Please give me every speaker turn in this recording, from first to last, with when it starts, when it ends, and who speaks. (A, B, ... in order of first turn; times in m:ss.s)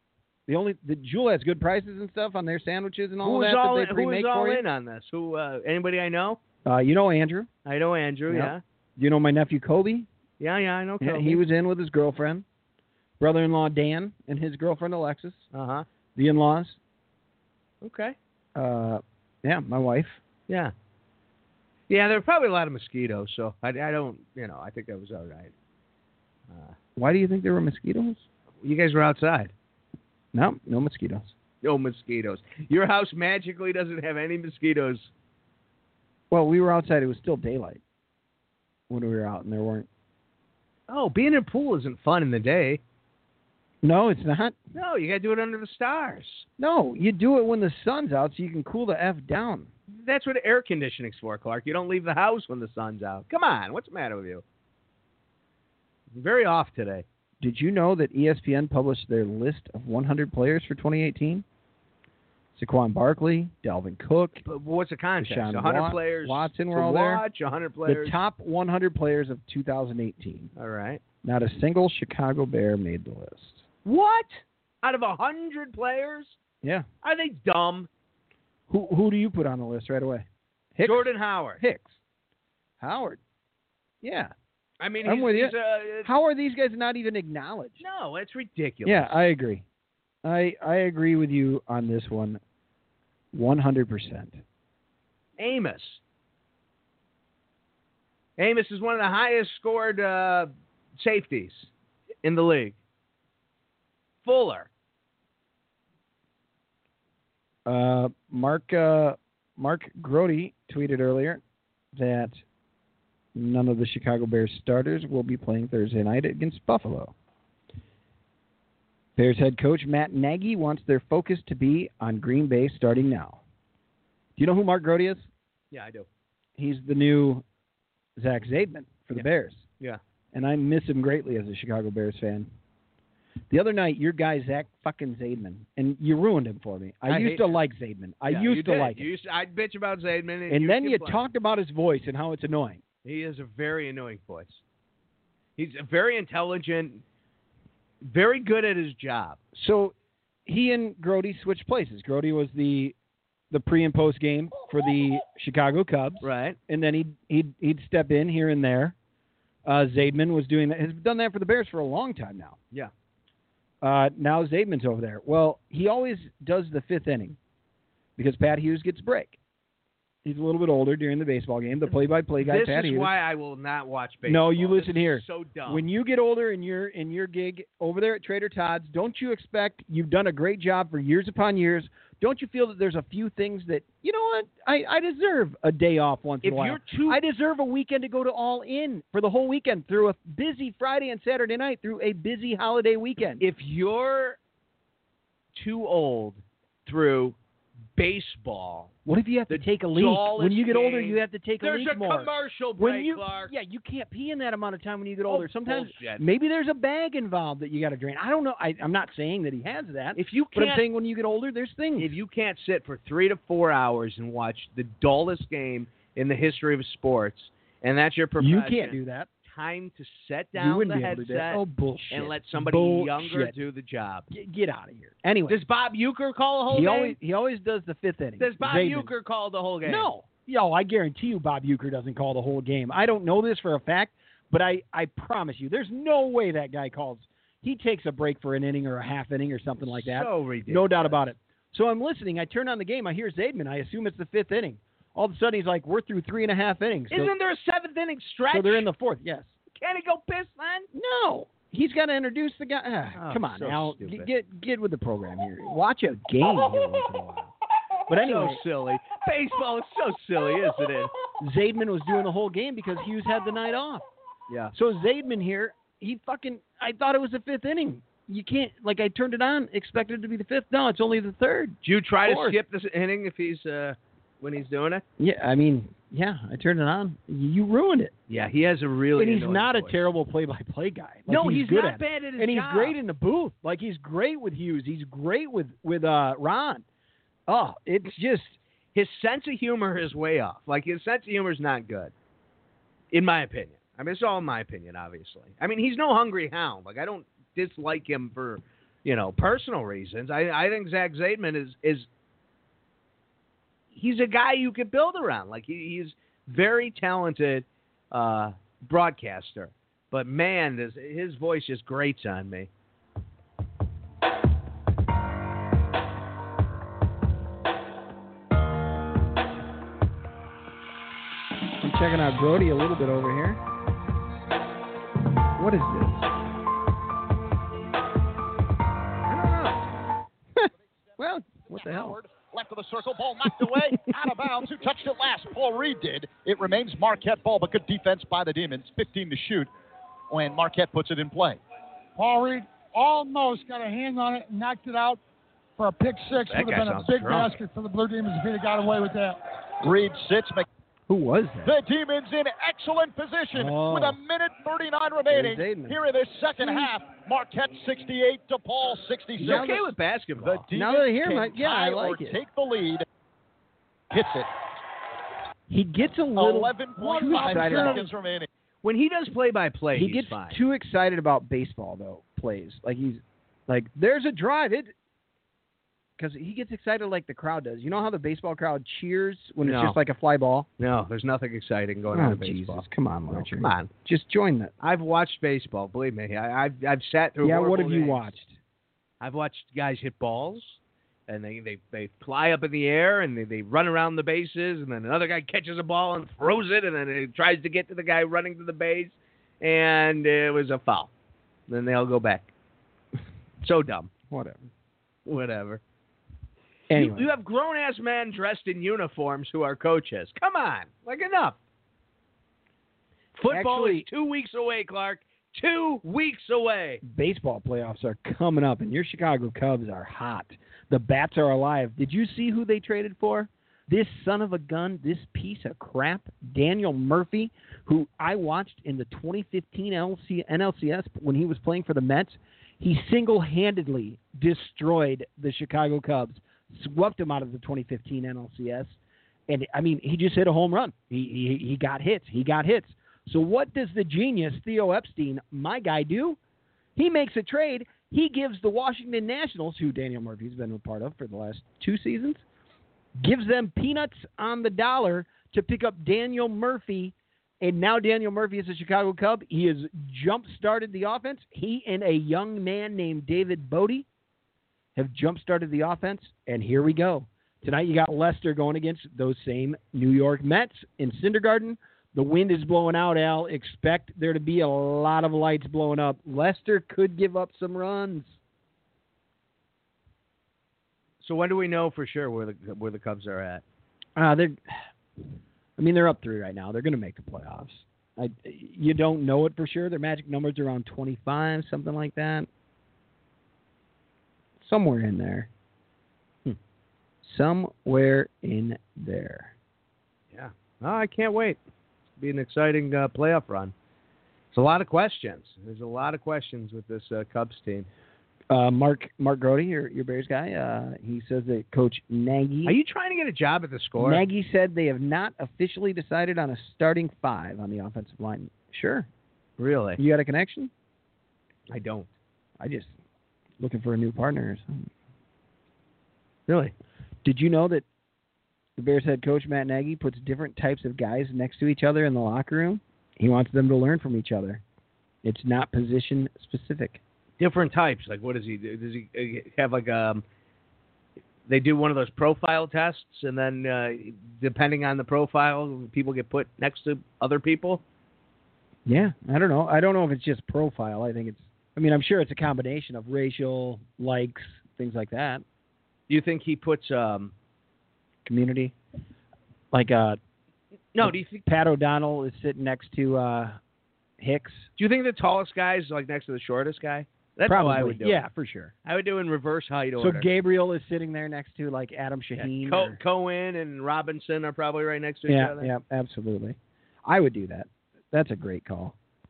0:00.5-0:04.6 A
0:03.2-0:06.4 B
0:06.6-0:07.5 A
0:07.6-0:08.6 B
0:08.3-0:10.1 A
0:10.4-0:11.4 B
0:11.0-0:12.4 A
0:13.2-0:15.4 A
0:15.5-0:15.9 B
0:16.2-0:16.8 A
0:17.8-0:18.2 B
0:18.6-0:20.2 A
0:20.5-0:20.7 B
0:21.9-0:25.5 B
0:26.5-0:26.8 B
0:27.0-0:28.2 A
0:28.6-0:29.5 B
0:30.3-0:31.3 A
0:31.6-0:35.1 B
0:36.3-0:37.8 A
0:38.9-0:39.9 A
0:40.9-0:42.8 B
0:43.8-0:44.6 A
0:44.7-0:46.5 B
0:46.6-0:49.7 A
0:49.9-0:54.4 B
0:56.1-0:57.0 B
0:57.4-1:01.4 A
1:02.6-1:04.4 A
1:04.4-1:08.2 B
1:05.2-1:07.2 A
1:07.8-1:10.5 A
1:10.6-1:11.0 B
1:11.2-1:13.6 A
1:13.8-1:16.4 B
1:17.0-1:17.9 B
1:18.7-1:22.0 A
1:20.8-1:21.6 B
1:22.8-1:23.2 A
1:24.0-1:24.3 A
1:24.8-1:26.1 B
1:25.0-1:27.8 A
1:27.8-1:29.2 B
1:28.8-1:29.6 A
1:30.2-1:32.4 A
1:33.3-1:34.4 A
1:35.4-1:36.0 B
1:38.4-1:41.7 B
1:42.2-1:42.8 B
1:44.2-1:44.7 B
1:47.7-1:51.4 A
1:51.9-1:52.4 A
1:53.4-1:57.1 A
1:59.2-2:03.4 A
2:04.4-2:05.3 A
2:05.7-2:06.1 B
2:06.6-2:07.4 A
2:08.2-2:09.6 A
2:10.3-2:12.5 A
2:13.5-2:19.1 A
2:17.1-2:17.6 B
2:18.3-2:21.2 B
2:20.5-2:22.8 A
2:23.0-2:24.6 B
2:25.6-2:27.0 B
2:28.0-2:29.4 B
2:29.6-2:29.9 A
2:30.5-2:33.0 A
2:33.5-2:39.0 A
2:36.2-2:36.6 B
2:39.6-2:42.6 A
2:43.8-2:47.4 A
2:48.2-2:49.4 A
2:50.2-2:53.1 A
2:52.4-2:55.9 B
2:54.2-3:13.4 A
3:06.4-3:07.2 B
3:13.4-3:14.4 B
3:15.6-3:17.4 B
3:18.0-3:18.9 B
3:19.1-3:32.2 A
3:19.5-3:23.5 B
3:25.3-3:26.2 B
3:30.2-3:30.8 B
3:32.0-3:44.3 B
3:38.4-3:39.3 A
3:40.6-3:43.6 A
3:44.3-3:45.6 A
3:45.5-3:47.2 B
3:46.7-3:49.1 A
3:48.4-3:50.1 B
3:49.8-4:07.3 A
3:59.8-4:01.2 B
4:07.1-4:08.9 B
4:08.5-4:09.5 A
4:09.7-4:10.9 B
4:10.9-4:17.5 A
4:13.2-4:14.3 B
4:18.1-4:18.6 A
4:18.1-4:21.1 B
4:21.4-4:24.1 A
4:24.5-4:24.7 B
4:24.7-4:32.6 A
4:31.8-4:35.0 B
4:35.2-4:38.1 A
4:38.3-4:40.0 B
4:39.2-4:46.8 A
4:41.3-4:43.0 B
4:47.5-4:48.6 A
4:49.0-4:52.1 B
4:53.1-5:02.1 B
5:03.9-5:12.7 B
5:21.8-5:23.6 A
5:25.6-5:26.3 A
5:29.3-5:29.8 B
5:30.6-5:32.2 A
5:31.6-5:39.7 C
5:33.7-5:34.2 A
5:40.3-5:41.6 C
5:42.2-5:45.2 D
5:45.8-5:49.4 D
5:46.4-5:47.6 B
5:49.8-5:50.7 C
5:51.1-5:51.8 A
5:51.7-5:59.9 C
5:53.5-5:54.2 A
5:55.3-5:56.0 A
5:56.6-5:56.9 A
5:59.4-5:59.9 A
5:59.4-6:00.7 B
6:00.4-6:03.0 C
6:00.7-6:02.4 A
6:04.1-6:04.5 C
6:05.7-6:08.1 A
6:06.4-6:08.5 C
6:07.0-6:08.1 D
6:08.8-6:10.6 B
6:09.9-6:14.9 A
6:16.2-6:20.7 A
6:19.6-6:20.0 B
6:20.8-6:23.9 B
6:22.1-6:24.7 A
6:24.8-6:28.3 B
6:27.4-6:28.6 A
6:29.2-6:41.1 B
6:41.7-6:42.5 B
6:43.6-6:44.1 B
6:44.3-6:44.7 A
6:45.2-6:45.8 B
6:46.9-6:47.3 A
6:46.9-6:51.6 B
6:53.4-6:57.0 B
6:53.5-6:54.1 A
6:57.0-7:19.0 A
7:19.5-7:26.4 A
7:27.0-7:32.4 A
7:33.2-7:44.1 A
7:45.0-7:58.3 A
8:01.2-8:03.6 B
8:04.2-8:04.8 A
8:05.8-8:12.5 A
8:14.6-8:15.5 A
8:17.2-8:19.6 A
8:20.3-8:21.6 B
8:22.2-8:23.7 B
8:24.5-8:27.9 B
8:28.5-8:32.8 A
8:32.6-8:34.2 B
8:34.0-8:39.1 A
8:39.6-8:40.0 B
8:40.0-8:40.7 A
8:41.7-8:42.1 B
8:42.6-8:42.9 A
8:43.6-8:44.9 A
8:46.5-8:46.7 B
8:47.2-8:47.8 A
8:48.8-8:54.6 A
8:55.2-8:57.0 A
8:57.4-9:00.2 B
9:01.5-9:07.8 B
9:08.9-9:15.4 A
9:16.1-9:17.3 B
9:18.2-9:18.8 A
9:19.7-9:20.2 A
9:20.9-9:21.4 B
9:21.0-9:23.6 A
9:24.2-9:24.7 A
9:24.8-9:28.2 B
9:27.5-9:28.7 A
9:28.8-9:30.3 B
9:30.0-9:33.0 A
9:32.4-9:35.7 B
9:35.3-9:39.0 A